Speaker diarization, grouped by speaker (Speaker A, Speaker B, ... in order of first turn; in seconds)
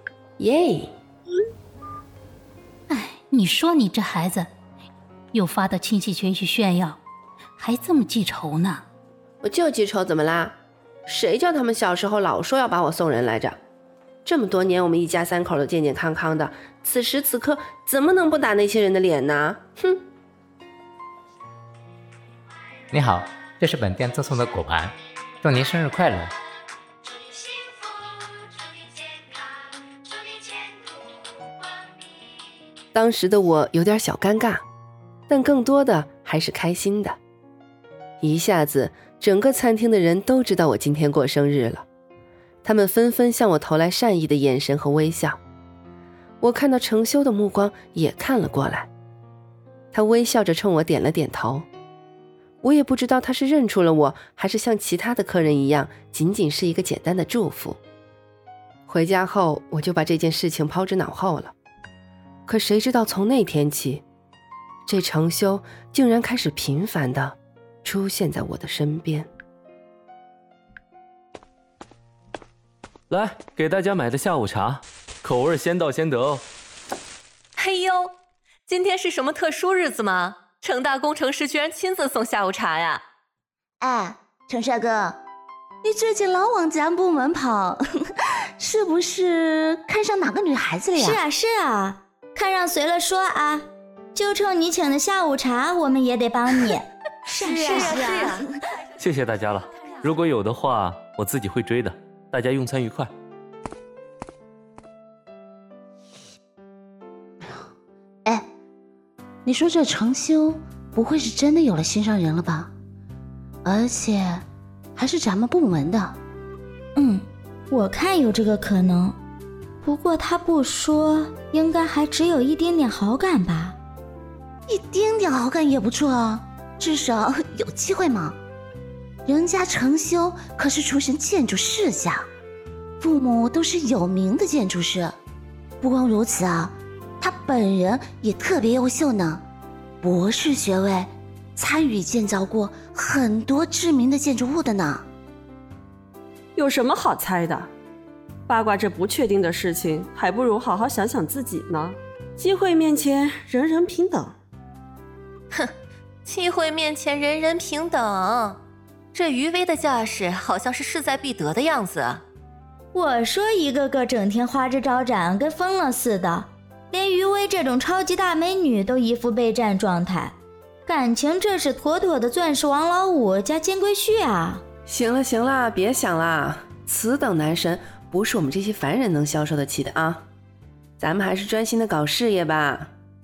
Speaker A: 0.4-0.9, 9.4-13.6, 14.2-20.0, 32.9-34.6, 35.3-37.2, 38.2-41.9, 42.6-45.4, 46.4-48.9, 49.9-51.7, 52.6-57.8, 58.9-61.5, 62.5-64.0, 64.8-69.3, 174.8-180.2, 181.0-182.9
Speaker B: 2.9-4.5, 5.3-7.0, 7.6-8.8
Speaker C: 22.9-26.3
Speaker D: 73.1-76.4, 99.0-103.1
Speaker E: 77.6-78.1, 78.7-83.0, 97.4-98.4, 156.2-158.6, 159.1-162.2
Speaker F: 83.8-85.2, 85.8-91.2, 109.4-112.7, 113.6-114.4, 115.0-116.2, 124.7-128.3, 129.2-132.3, 133.0-135.2, 135.8-139.4, 140.0-145.1
Speaker G: 91.0-98.4, 116.9-119.2, 119.8-123.8, 162.9-170.3, 170.8-174.6
Speaker H: 146.6-147.7, 148.5-154.3